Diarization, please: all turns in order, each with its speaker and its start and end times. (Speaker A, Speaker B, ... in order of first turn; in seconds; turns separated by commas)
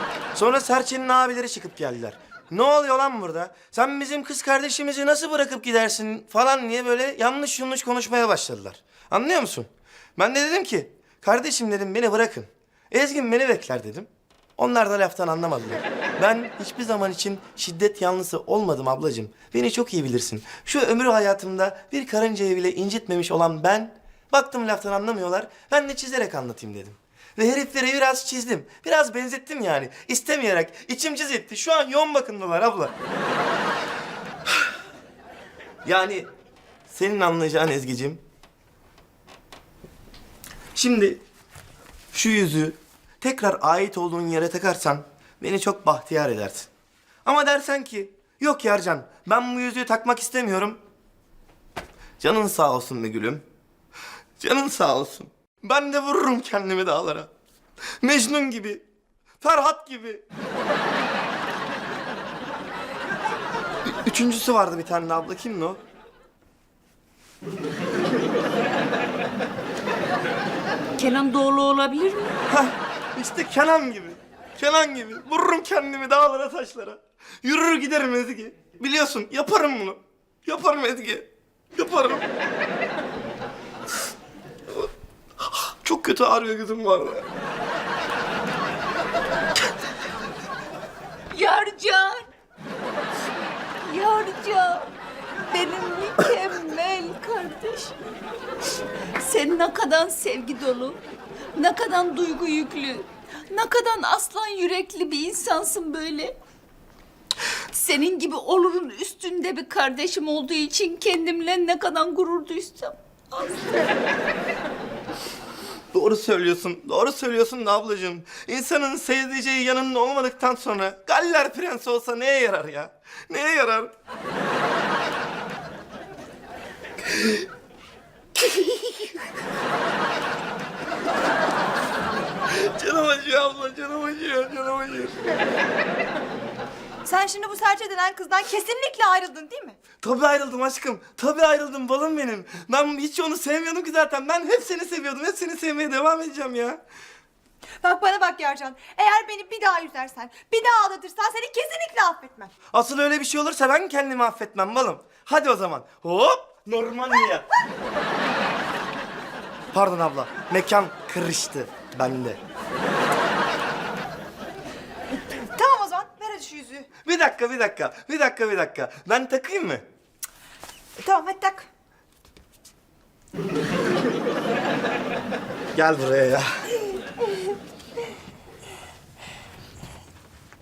Speaker A: 0.3-32.9, Speaker A: 35.8-36.3, Speaker A: 36.9-38.2, Speaker A: 40.7-41.2, Speaker A: 42.1-46.7, Speaker A: 47.2-50.8, Speaker A: 52.2-53.4, Speaker A: 54.4-57.3, Speaker A: 58.0-58.8, Speaker A: 59.4-60.2, Speaker A: 63.9-65.8, Speaker B: 71.0-72.4, Speaker A: 72.5-82.2, Speaker A: 85.8-87.2, Speaker B: 91.3-92.2, Speaker B: 93.8-94.9, Speaker B: 95.4-98.0, Speaker B: 99.2-101.0, Speaker B: 101.5-106.3, Speaker B: 107.7-113.8, Speaker A: 115.9-123.9, Speaker A: 132.5-135.2, Speaker C: 137.1-139.8, Speaker A: 140.0-146.8, Speaker C: 147.8-152.5, Speaker A: 152.7-157.4, Speaker A: 159.7-162.4, Speaker C: 165.6-166.8, Speaker A: 167.0-169.8, Speaker C: 171.0-171.7, Speaker A: 175.7-176.4